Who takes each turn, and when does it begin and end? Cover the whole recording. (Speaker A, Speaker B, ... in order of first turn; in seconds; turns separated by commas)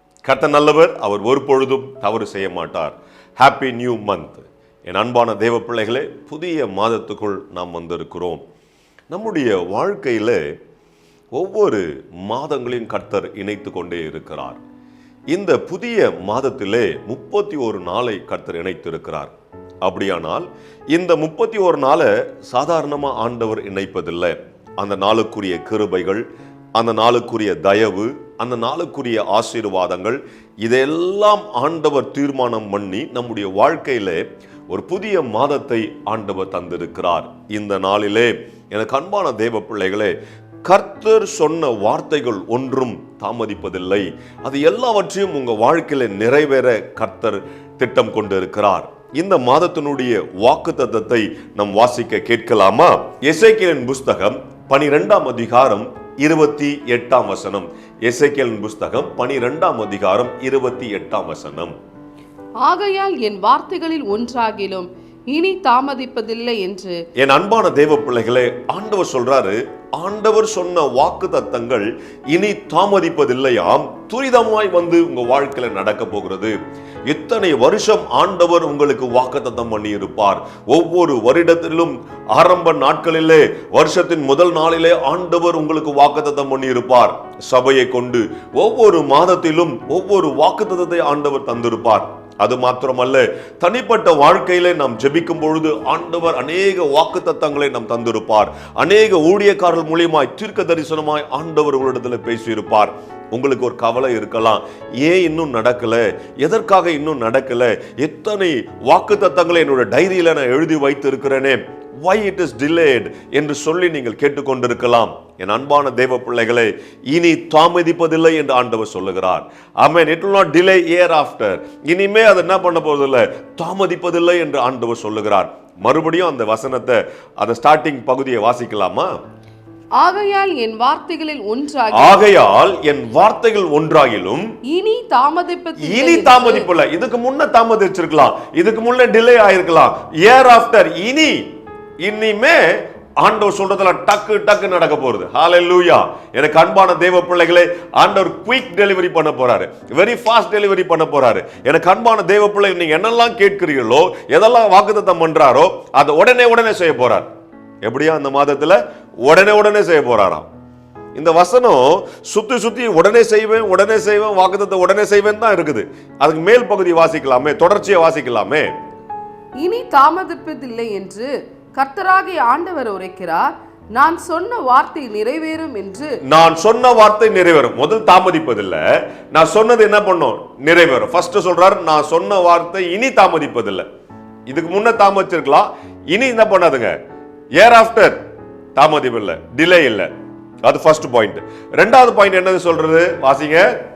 Speaker A: 0.2-8.4, Speaker A: 9.1-10.5, Speaker A: 11.3-14.6, Speaker A: 15.3-61.7, Speaker B: 62.6-67.0, Speaker A: 67.2-129.1, Speaker B: 130.0-132.2, Speaker A: 131.9-134.5, Speaker B: 134.7-136.7, Speaker A: 135.8-141.4, Speaker A: 142.0-157.3, Speaker A: 157.8-160.5, Speaker A: 161.1-168.7, Speaker B: 169.6-176.2, Speaker A: 176.3-183.8, Speaker A: 184.5-186.9, Speaker A: 187.5-188.2, Speaker A: 188.8-190.1, Speaker A: 190.6-193.7